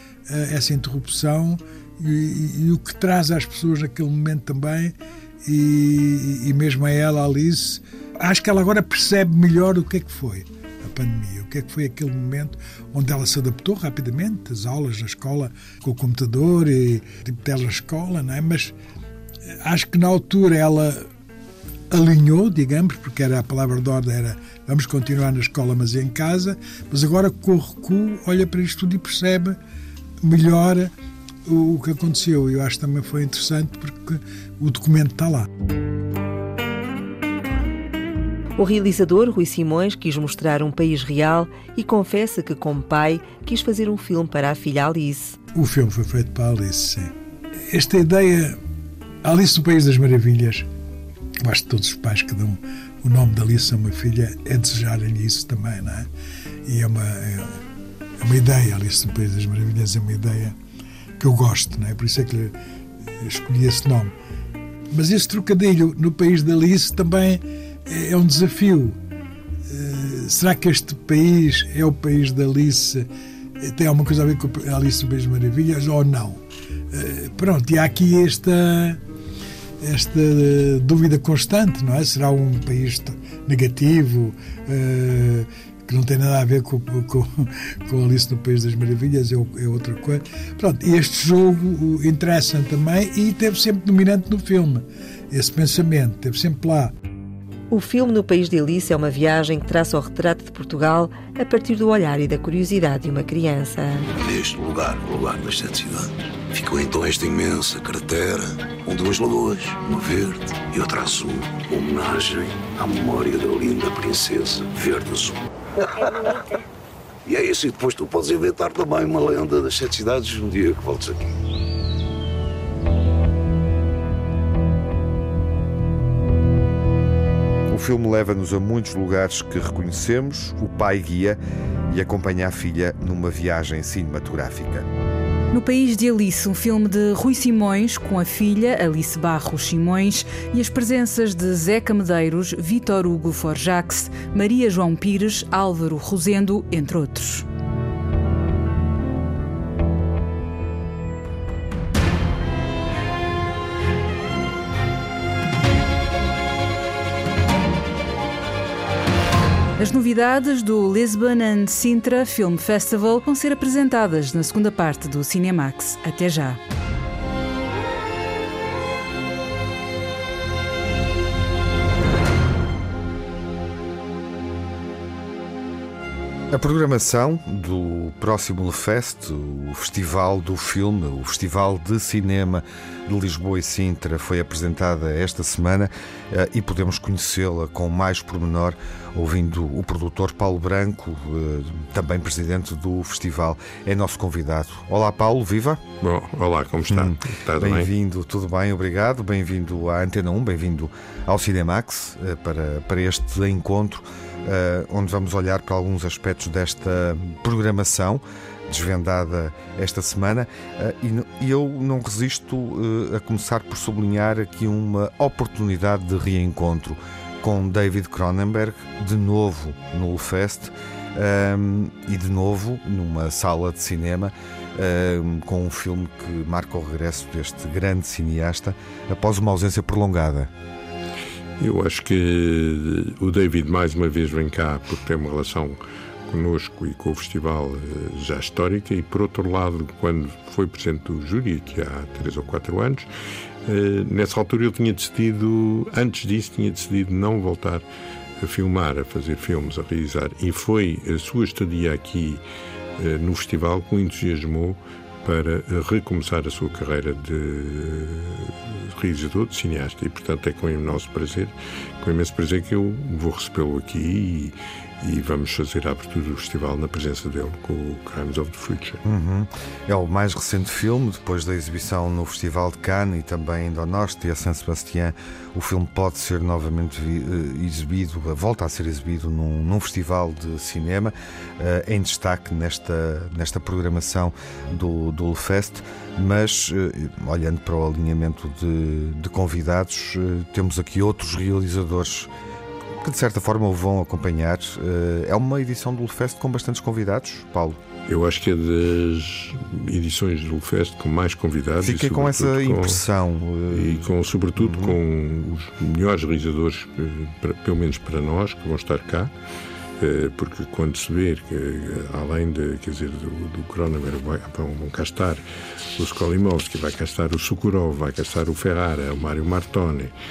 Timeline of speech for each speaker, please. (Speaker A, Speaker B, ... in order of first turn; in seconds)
Speaker A: 0.3-18.7, 19.6-21.1, 21.9-29.6, 30.2-30.9, 31.5-35.5, 45.5-47.1, 47.7-48.6, 49.2-50.7, 51.4-56.1, 56.7-57.6, 58.2-60.5, 61.2-62.5, 63.2-64.1, 64.9-69.0, 69.7-73.1, 73.6-79.0, 79.8-96.9
Speaker B: 38.6-45.4, 97.7-104.1
Speaker C: 104.2-116.1, 117.3-121.2
Speaker D: 127.7-134.9, 176.5-195.8, 196.9-230.5, 269.0-292.3, 293.0-297.8, 301.8-305.0
Speaker E: 135.5-147.5, 159.8-166.6
Speaker F: 196.0-197.9, 231.6-243.1, 243.7-247.8, 248.4-252.4, 253.0-269.0, 298.1-303.0, 303.7-309.3, 310.0-315.4, 316.0-320.1